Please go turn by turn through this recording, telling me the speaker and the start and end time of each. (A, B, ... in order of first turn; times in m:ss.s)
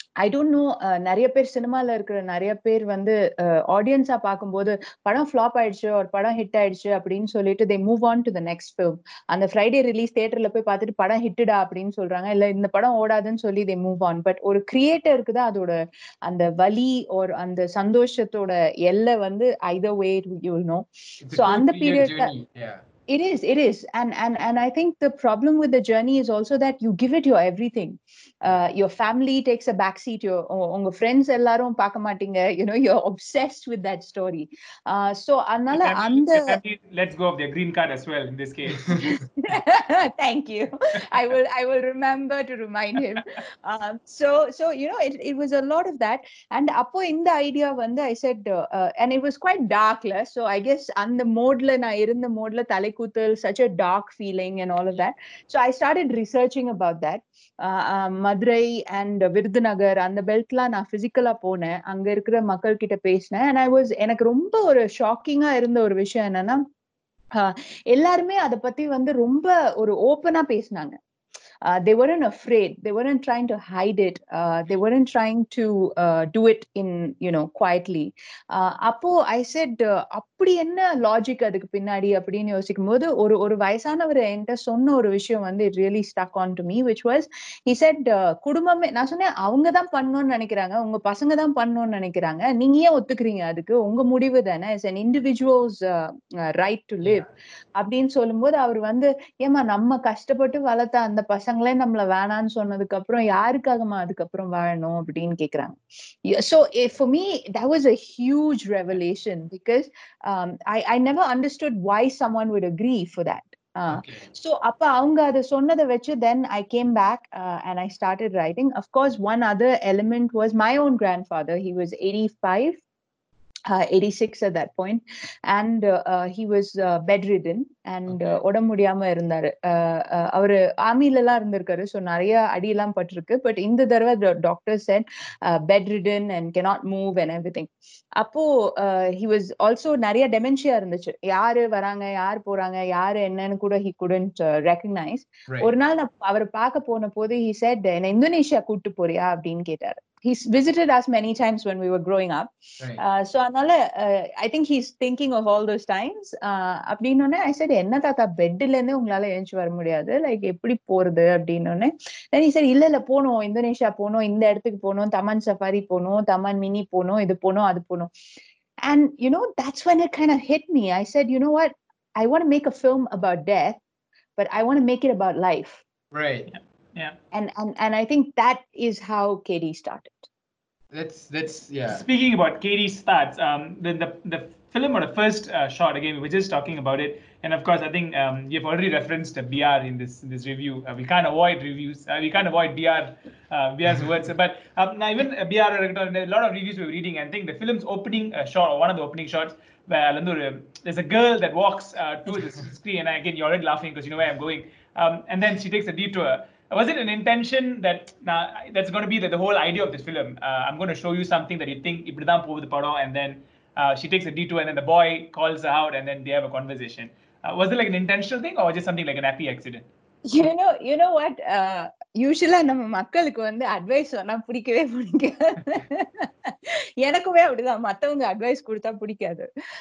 0:00.2-0:22.3 A
0:21.2-0:22.8 B
0:23.1-0:36.6 A
0:35.7-0:39.0 C
0:39.0-1:06.6 A
1:07.4-1:11.0 A
1:11.6-2:02.8 A
1:37.0-1:37.3 B
1:53.9-1:54.2 B
2:03.7-2:48.1 A
2:08.1-2:08.3 B
2:48.8-2:53.8 A
2:54.4-2:55.8 A
2:56.1-2:56.5 B
2:56.5-2:57.2 C
2:57.3-3:00.3 A
3:00.9-3:02.0 B
3:01.9-3:39.8 C
3:40.3-3:49.5 A